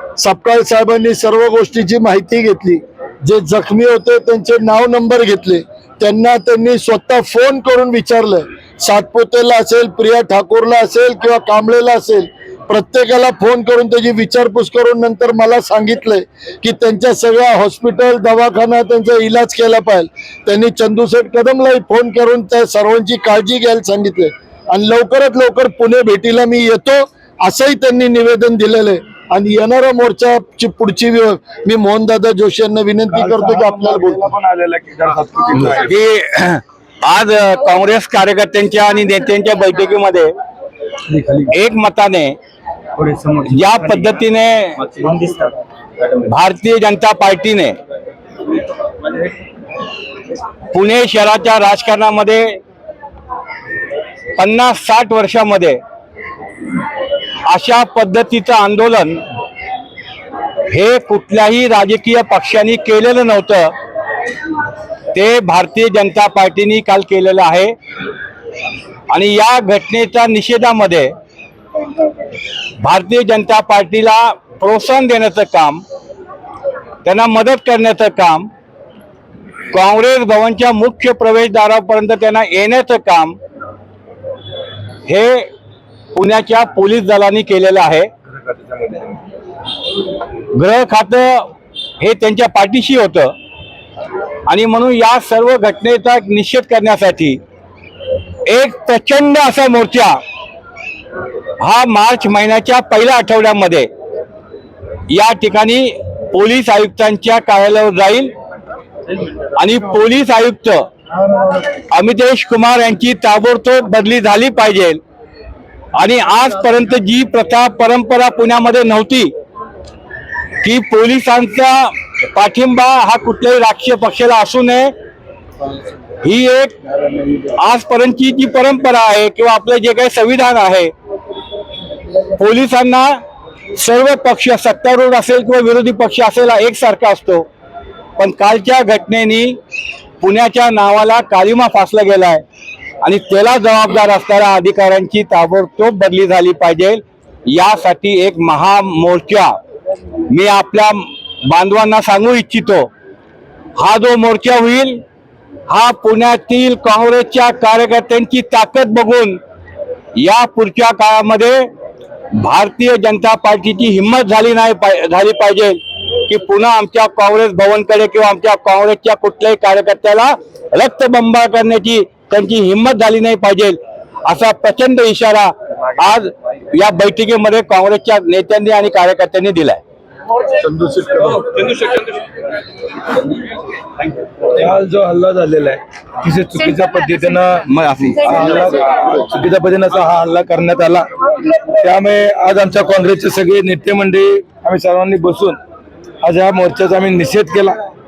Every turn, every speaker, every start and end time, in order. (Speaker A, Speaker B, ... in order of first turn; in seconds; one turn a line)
Speaker A: 0.2-34.2
Speaker B: 33.1-35.9
Speaker C: 35.6-40.3
Speaker B: 41.1-41.4
Speaker C: 41.5-42.4
Speaker B: 43.0-43.3
Speaker C: 43.5-44.9
Speaker C: 46.1-47.8
Speaker C: 50.7-52.6
Speaker C: 54.4-55.8
Speaker C: 57.5-59.2
Speaker C: 60.7-63.7
Speaker C: 65.1-67.7
Speaker C: 69.1-71.1
Speaker C: 72.8-75.8
Speaker C: 77.0-78.5
Speaker C: 79.7-83.4
Speaker C: 85.1-85.5
Speaker C: 86.2-88.1
Speaker B: 88.5-89.0
Speaker C: 90.6-91.5
Speaker C: 92.0-93.3
Speaker C: 94.5-97.4
Speaker C: 98.5-100.2
Speaker C: 101.6-103.9
Speaker C: 105.1-108.3
Speaker C: 109.4-110.9
Speaker C: 111.9-115.0
Speaker C: 116.0-119.3
Speaker C: 120.6-124.9
Speaker C: 126.2-126.8
Speaker C: 127.4-130.9
Speaker C: 132.4-133.1
Speaker C: 133.8-137.5
Speaker C: 138.2-139.6
Speaker C: 140.2-142.4
Speaker C: 143.0-149.5
Speaker C: 150.3-152.9
Speaker C: 153.8-155.0
Speaker C: 155.7-159.4
Speaker C: 160.2-161.7
Speaker C: 162.4-179.8
Speaker C: 180.7-181.0
Speaker B: 181.0-181.8
Speaker B: 184.5-191.1
Speaker C: 187.7-188.3
Speaker B: 191.7-195.6
Speaker B: 196.2-197.8